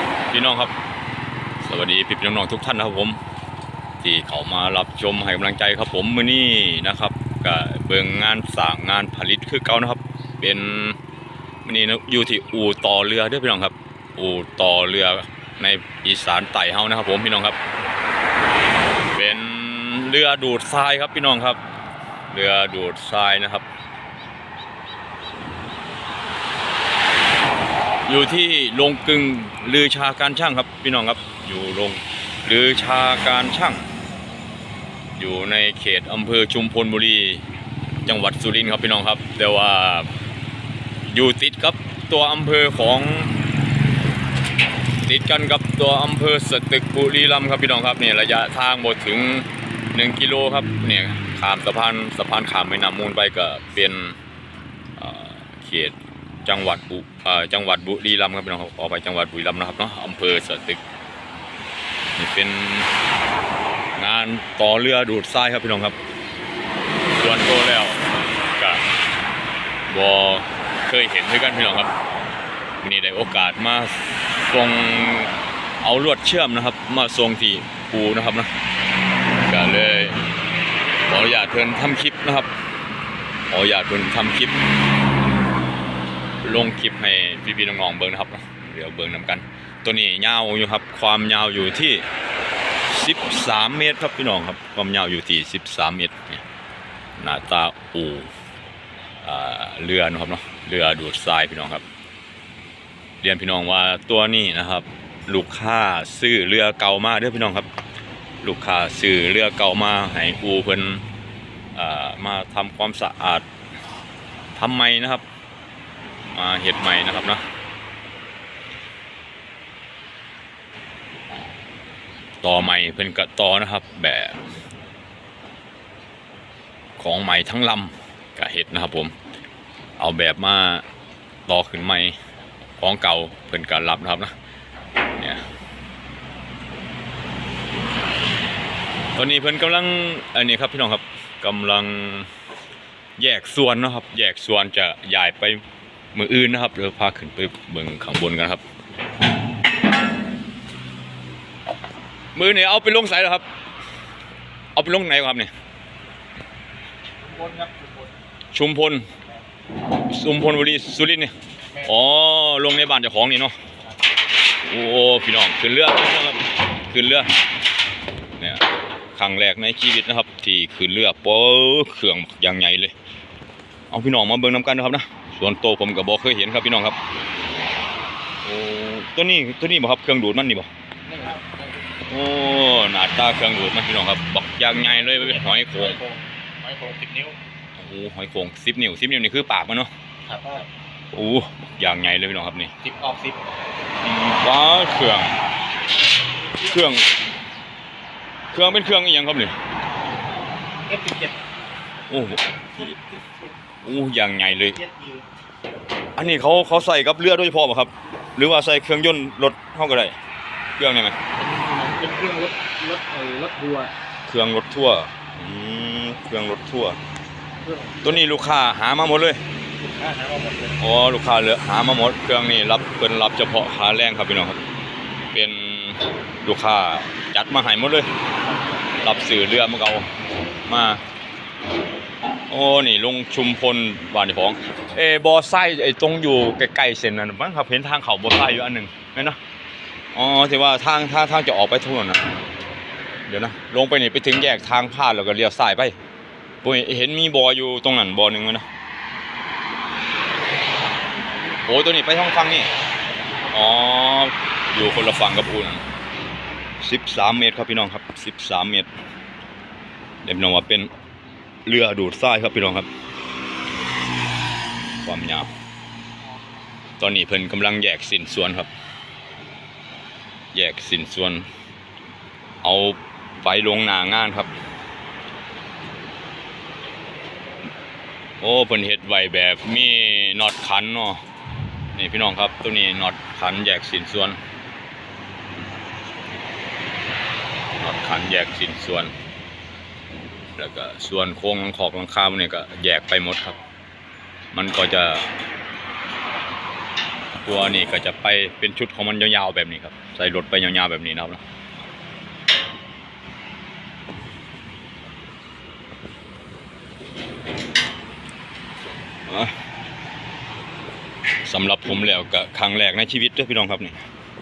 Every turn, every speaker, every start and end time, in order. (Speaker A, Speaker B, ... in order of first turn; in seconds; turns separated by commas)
Speaker A: 0.3-0.7, Speaker A: 1.6-3.2, Speaker A: 4.0-11.0, Speaker A: 11.6-17.6, Speaker A: 19.1-21.6, Speaker A: 22.3-23.6, Speaker A: 28.1-33.8, Speaker A: 35.1-37.4, Speaker A: 38.0-40.1, Speaker A: 41.1-43.4, Speaker A: 45.0-54.2, Speaker A: 55.0-60.8, Speaker A: 62.1-62.9, Speaker A: 64.0-66.0, Speaker A: 67.2-68.0, Speaker A: 68.6-68.8, Speaker A: 69.9-71.9, Speaker A: 72.8-74.0, Speaker A: 74.5-78.5, Speaker A: 79.4-80.2, Speaker A: 81.1-82.5, Speaker A: 83.5-84.6, Speaker A: 86.4-92.1, Speaker A: 92.9-96.4, Speaker A: 97.2-98.3, Speaker A: 99.2-101.8, Speaker A: 103.2-107.7, Speaker A: 108.4-111.0, Speaker A: 111.7-113.5, Speaker A: 114.5-115.2, Speaker A: 116.3-117.4, Speaker A: 122.4-124.4, Speaker A: 127.0-129.1, Speaker A: 130.0-130.8, Speaker A: 131.5-132.2, Speaker A: 132.8-134.3, Speaker A: 135.2-135.4, Speaker A: 139.1-142.3, Speaker A: 143.2-145.6, Speaker A: 146.1-148.6, Speaker A: 152.3-153.4, Speaker A: 154.7-155.5, Speaker B: 157.2-158.1, Speaker A: 158.5-159.1, Speaker A: 160.1-161.3, Speaker A: 161.8-163.5, Speaker A: 164.6-167.3, Speaker A: 168.4-172.9, Speaker A: 173.9-177.0, Speaker A: 178.4-180.7, Speaker B: 181.1-181.8, Speaker A: 182.1-186.0, Speaker B: 184.8-187.4, Speaker A: 187.8-189.9, Speaker B: 190.2-190.7, Speaker A: 191.1-192.7, Speaker B: 192.8-193.4, Speaker A: 194.0-195.4, Speaker A: 196.6-197.1, Speaker A: 198.5-199.5, Speaker B: 200.9-201.4, Speaker A: 202.1-202.9, Speaker A: 203.8-204.8, Speaker B: 204.7-205.2, Speaker A: 206.2-210.2, Speaker A: 210.8-211.2, Speaker B: 211.4-213.9, Speaker A: 214.3-217.0, Speaker B: 217.6-218.2, Speaker A: 218.0-219.4, Speaker B: 219.8-220.8, Speaker A: 220.8-224.6, Speaker A: 225.3-228.1, Speaker A: 229.0-230.1, Speaker A: 230.7-231.0, Speaker A: 232.5-239.4, Speaker A: 240.1-242.2, Speaker A: 243.3-246.0, Speaker A: 246.6-248.7, Speaker A: 251.7-252.7, Speaker A: 253.5-255.8, Speaker A: 256.8-258.9, Speaker A: 260.2-260.9, Speaker A: 261.6-262.9, Speaker A: 265.0-265.5, Speaker A: 267.0-268.7, Speaker A: 270.5-271.5, Speaker A: 272.6-274.6, Speaker A: 278.4-281.2, Speaker A: 281.9-284.4, Speaker A: 287.8-289.1, Speaker A: 290.6-293.6, Speaker A: 294.5-295.3, Speaker A: 297.4-301.4, Speaker A: 309.3-309.5, Speaker A: 311.4-314.0